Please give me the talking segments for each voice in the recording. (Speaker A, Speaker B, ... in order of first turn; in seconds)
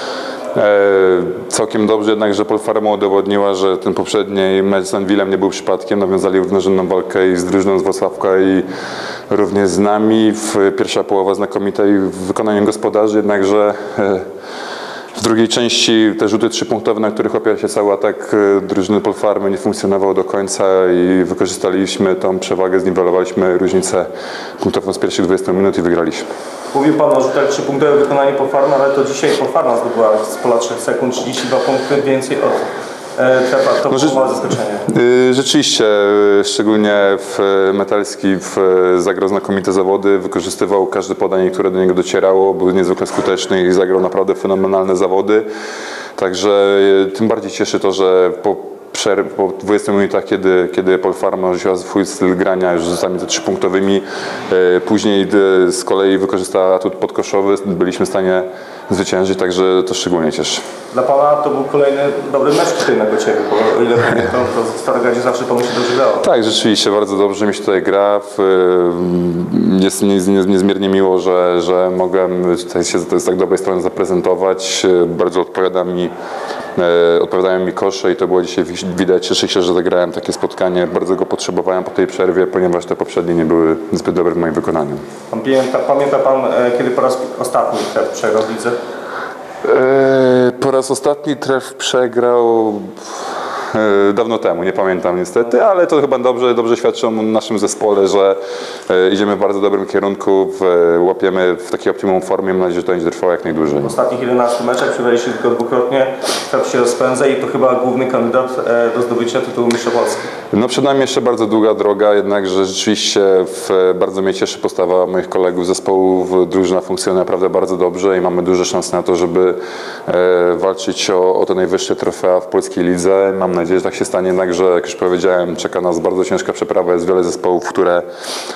Speaker A: 0.5-8.7, 9.3-14.2, 15.1-24.1, 24.6-26.3, 34.9-45.4, 46.2-60.6, 66.2-76.1, 76.8-85.0, 89.6-93.0, 93.7-98.4, 98.9-103.9, 110.5-128.0
Speaker B: 26.7-32.6, 33.2-34.9, 60.9-66.2, 85.3-88.8, 103.8-110.3